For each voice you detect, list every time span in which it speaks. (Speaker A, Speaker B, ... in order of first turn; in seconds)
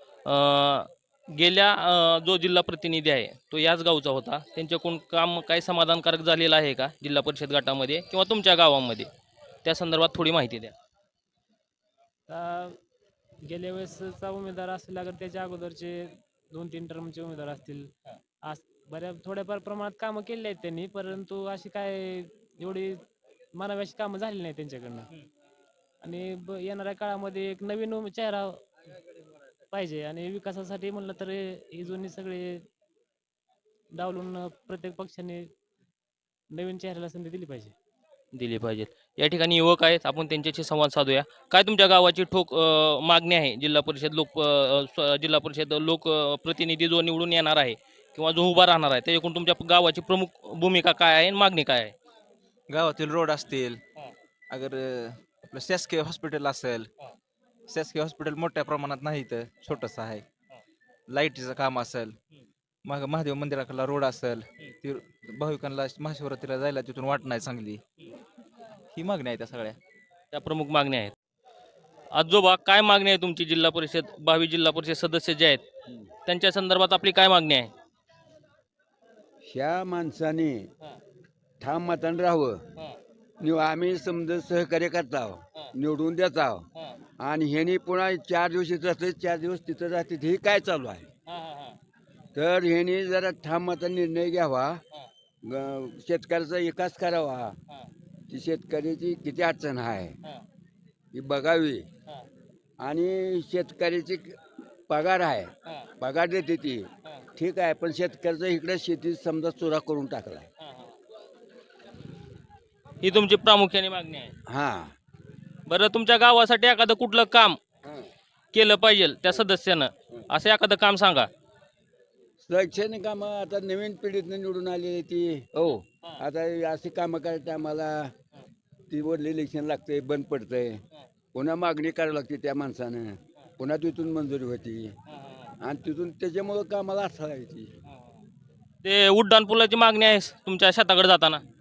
Speaker A: 0.2-9.1, 9.6-10.7, 38.3-51.9, 70.3-71.1, 72.1-75.6, 76.2-77.7, 113.0-114.3, 115.7-117.6, 118.5-121.3, 138.8-141.4
Speaker B: 12.3-12.8, 13.4-17.9, 18.4-23.0, 23.5-25.1, 26.0-28.6, 29.7-32.6, 33.9-35.5, 36.5-37.7
Speaker C: 52.7-53.8, 54.5-56.9, 57.7-60.2, 61.1-62.1, 62.8-67.8, 68.9-69.8
Speaker D: 79.4-80.7, 81.6-82.6, 83.4-86.7, 87.2-91.1, 92.3-94.8, 95.4-97.6, 98.3-100.2, 101.1-101.8, 102.8-110.5, 114.5-114.9, 122.4-128.1, 128.9-130.8, 131.3-134.9, 135.6-137.7